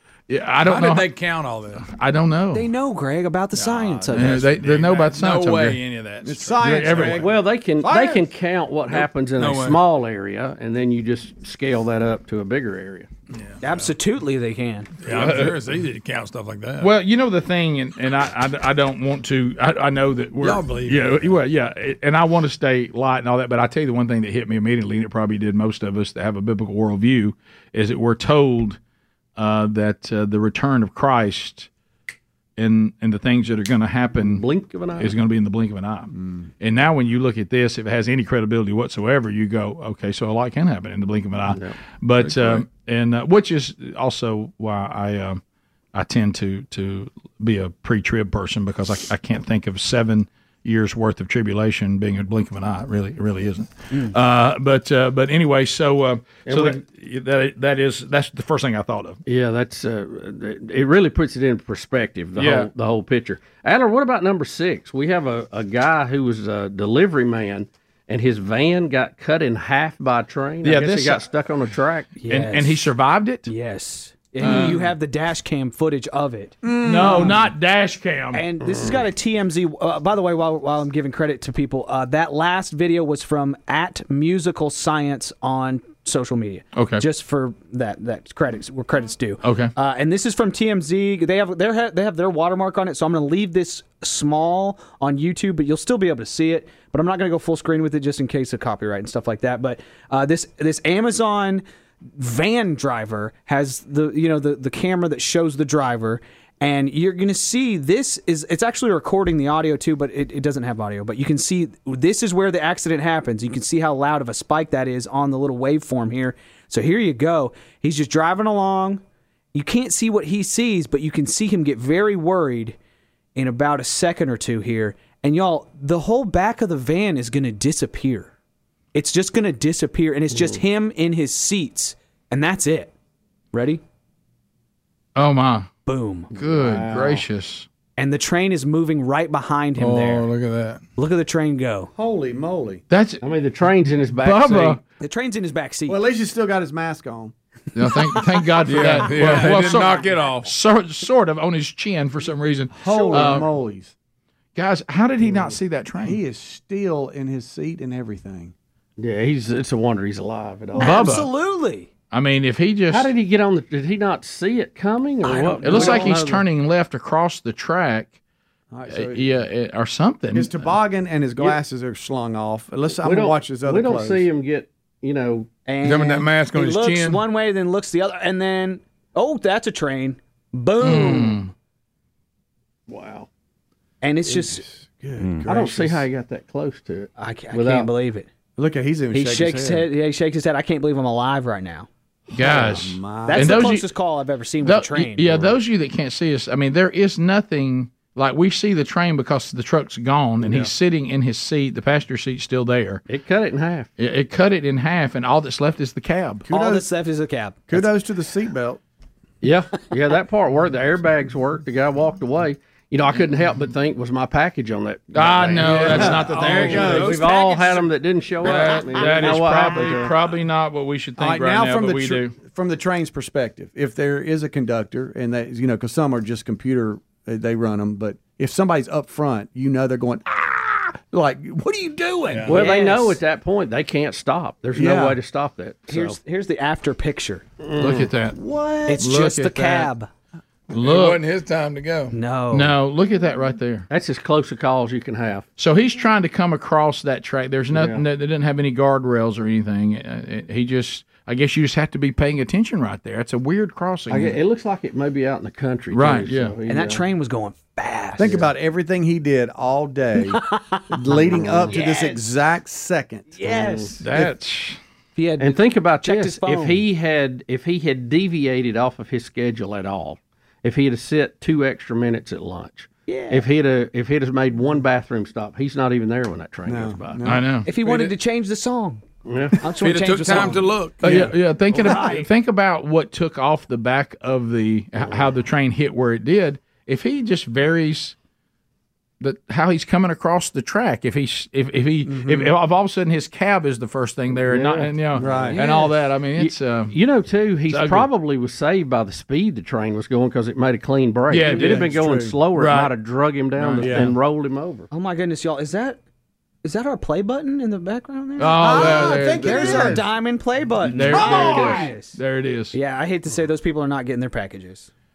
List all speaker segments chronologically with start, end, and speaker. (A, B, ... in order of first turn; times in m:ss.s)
0:00.3-0:01.1 A
0:00.6-0:01.8 B
0:01.8-0:02.6 A
0:02.5-0:04.4 C
0:03.6-0:07.1 B
0:04.1-0:05.8 A
0:06.2-0:07.3 D
0:06.6-0:07.2 A
0:07.1-0:13.1 E
0:07.8-0:08.2 D
0:09.4-0:09.8 B
0:13.3-0:13.9 B
0:13.6-0:14.9 C
0:15.0-0:16.9 B
0:15.0-0:15.6 A
0:16.8-0:28.8 A
0:20.4-0:21.3 B
0:29.4-0:31.7 A
0:32.6-0:34.4 A
0:34.2-0:35.1 E
0:35.0-0:45.4 A
0:36.1-0:36.5 D
0:41.5-0:41.8 E
0:45.9-0:59.2 A
0:56.4-0:56.8 E
0:59.2-1:12.1 E
1:02.4-1:02.7 A
1:10.6-1:11.2 A
1:12.2-1:12.8 C
1:12.3-1:13.5 A
1:13.4-1:17.4 C
1:14.4-1:14.8 A
1:16.7-1:17.3 D
1:16.8-1:18.4 A
1:18.3-1:41.6 C
1:18.6-1:19.0 E
1:26.8-1:27.0 A
1:29.4-1:29.7 A
1:42.2-1:59.0 C
1:59.5-2:02.8 C
2:03.4-2:08.3 C
2:08.9-2:12.9 C
2:10.3-2:10.6 E
2:13.5-2:13.8 C
2:15.1-2:15.7 A
2:15.8-2:16.3 C
2:16.3-2:17.7 A
2:16.4-2:17.2 E
2:18.0-2:20.3 C
2:19.8-2:20.8 B
2:21.0-2:21.9 C
2:21.9-2:22.8 D
2:22.9-2:23.2 A
2:23.2-2:24.8 E
2:24.2-2:24.8 A
2:25.0-2:26.0 C
2:25.9-2:27.3 D
2:27.7-2:33.5 A
2:28.6-2:30.5 B
2:32.7-2:33.9 D
2:34.5-2:36.2 A
2:36.0-2:38.5 D
2:39.0-2:41.0 E
2:40.8-2:41.9 C
2:40.8-2:41.3 A
2:42.1-2:43.1 A
2:42.9-2:46.4 E
2:45.2-2:46.1 C
2:45.6-2:48.2 A
2:45.6-2:46.0 D
2:48.7-2:49.3 D
2:48.9-2:50.7 A
2:50.3-2:54.3 D
2:53.0-2:55.5 E
2:55.7-3:01.4 C
2:55.8-2:57.2 B
3:00.8-3:01.5 A
3:02.9-3:03.3 E
3:04.0-3:04.6 C
3:04.2-3:06.0 D
3:05.4-3:07.9 E
3:07.2-3:08.3 C
3:08.6-3:09.9 D
3:09.1-3:11.9 C
3:12.3-3:13.7 D
3:12.3-3:13.9 A
3:13.3-3:15.5 C
3:14.6-3:23.0 A
3:20.4-3:20.7 E
3:23.1-3:23.9 E
3:24.0-3:26.4 A
3:26.5-3:26.8 D
3:26.5-3:27.9 C
3:27.7-3:28.8 D
3:29.4-3:40.1 E
3:35.1-3:37.2 A
3:35.6-3:37.2 D
3:36.8-3:37.8 C
3:38.4-3:42.3 A
3:41.2-3:52.6 D
3:52.3-3:52.6 B
3:52.5-3:56.2 E
3:52.5-3:53.2 C
3:54.7-3:55.2 D
3:55.9-3:57.4 C
3:57.6-3:58.1 E
3:57.8-3:58.4 A
3:58.3-3:59.0 D
3:58.8-4:00.1 C
3:58.9-3:59.9 A
4:00.7-4:01.2 A
4:00.7-4:02.2 B
4:02.1-4:02.7 C
4:02.5-4:03.9 A
4:03.9-4:05.4 E
4:05.6-4:14.4 A
4:07.7-4:08.0 E
4:14.1-4:17.0 E
4:15.9-4:16.5 A
4:16.7-4:18.5 C
4:18.2-4:23.3 D
4:20.3-4:22.1 C
4:21.3-4:21.9 E
4:23.3-4:24.1 C
4:23.4-4:23.9 E
4:24.0-4:24.8 A
4:25.2-4:26.8 C
4:25.4-4:37.2 E
4:33.1-4:33.4 C
4:36.6-4:37.5 D
4:37.2-4:37.7 A
4:37.6-4:39.0 C
4:39.2-4:39.6 E
4:39.6-4:40.8 C
4:39.7-4:41.2 B
4:41.0-4:48.1 A
4:41.0-4:42.2 D
4:49.2-4:56.9 A
4:52.0-4:52.5 D
4:54.5-4:55.5 E
4:55.2-4:55.6 D
4:55.5-4:55.9 C
4:56.4-5:04.9 E
4:57.7-4:58.1 A
5:01.3-5:01.9 A
5:01.4-5:02.4 D
5:02.5-5:02.9 A
5:03.6-5:04.1 A
5:03.8-5:04.1 D
5:04.9-5:06.0 C
5:06.6-5:12.2 C
5:08.4-5:10.0 A
5:08.5-5:10.0 D
5:10.8-5:12.8 A
5:11.0-5:11.8 D
5:12.7-5:14.9 C